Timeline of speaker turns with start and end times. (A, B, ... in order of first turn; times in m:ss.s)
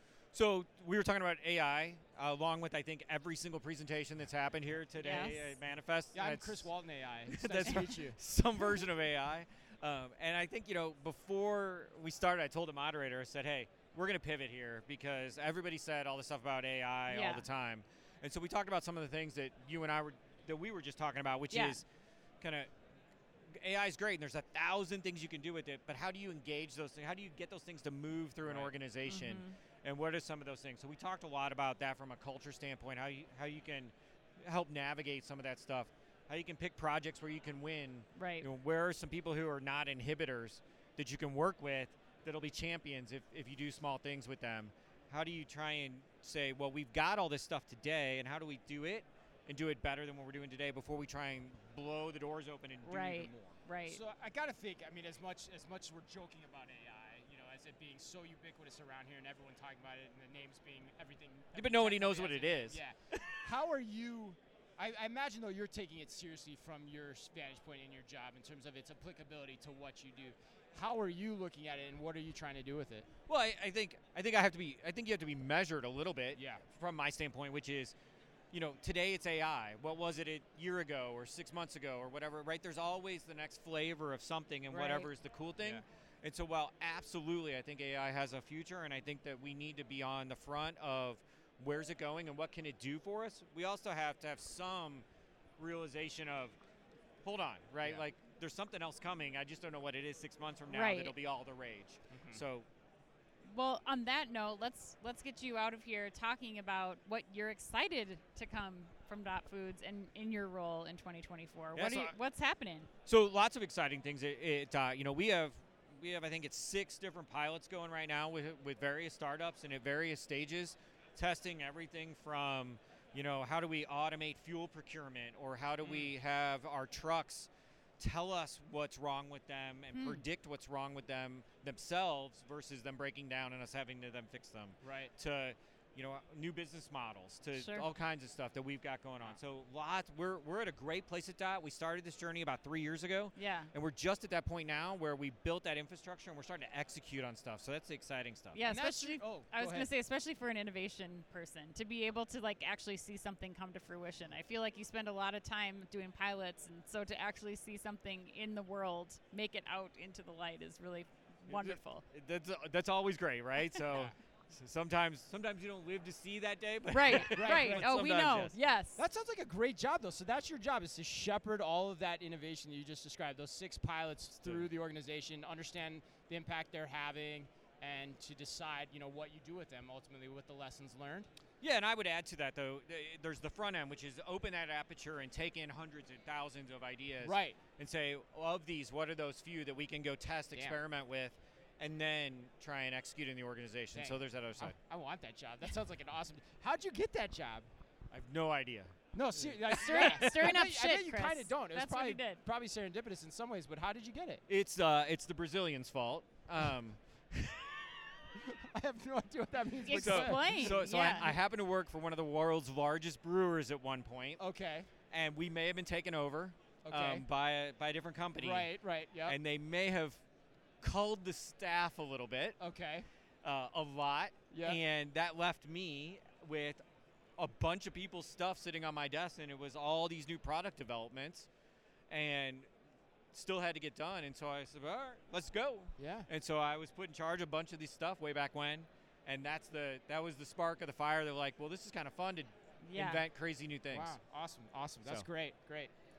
0:00.3-0:06.7 A
0:05.0-0:05.5 B
0:06.1-0:08.2 C
0:07.3-0:21.8 A
0:17.1-0:17.5 B
0:21.5-0:21.8 B
0:22.4-0:22.7 A
0:23.5-0:53.6 A
0:28.4-0:28.7 C
0:29.0-0:29.6 B
0:38.2-0:38.5 B
0:52.8-0:54.0 B
0:53.9-1:13.1 C
1:01.6-1:03.4 A
1:13.3-1:18.0 A
1:16.3-1:16.6 C
1:18.5-1:35.1 A
1:24.7-1:25.1 B
1:35.6-1:36.6 A
1:37.2-1:42.7 A
1:40.7-1:41.2 B
1:42.1-1:42.4 C
1:43.5-1:52.9 B
1:51.8-1:52.2 A
1:53.1-2:28.6 A
2:05.8-2:06.1 C
2:09.9-2:10.2 B
2:14.8-2:15.1 C
2:17.5-2:17.9 B
2:23.4-2:23.7 B
2:28.5-2:42.0 B
2:28.6-2:29.9 C
2:41.5-2:48.5 A
2:43.9-2:44.2 C
2:46.9-2:49.0 B
2:47.2-2:48.3 C
2:49.0-3:01.3 C
2:54.4-2:54.7 A
3:01.6-3:14.8 A
3:07.2-3:07.6 C
3:10.5-3:10.8 C
3:14.0-3:17.7 C
3:18.1-3:20.6 A
3:19.1-3:24.4 C
3:19.7-3:22.4 B
3:24.5-3:28.0 A
3:28.4-3:30.9 C
3:29.8-3:31.4 B
3:29.9-3:34.4 A
3:34.4-3:34.9 C
3:35.1-3:38.7 A
3:36.9-3:37.3 C
3:38.4-3:39.4 C
3:39.3-3:40.2 A
3:40.8-3:42.6 A
3:42.6-3:43.1 C
3:43.4-3:46.8 A
3:44.5-3:44.8 C
3:47.4-3:51.5 A
3:52.1-3:52.7 A
3:53.3-4:04.2 A
3:56.0-3:56.3 C
4:02.8-4:03.2 B
4:03.9-4:05.9 C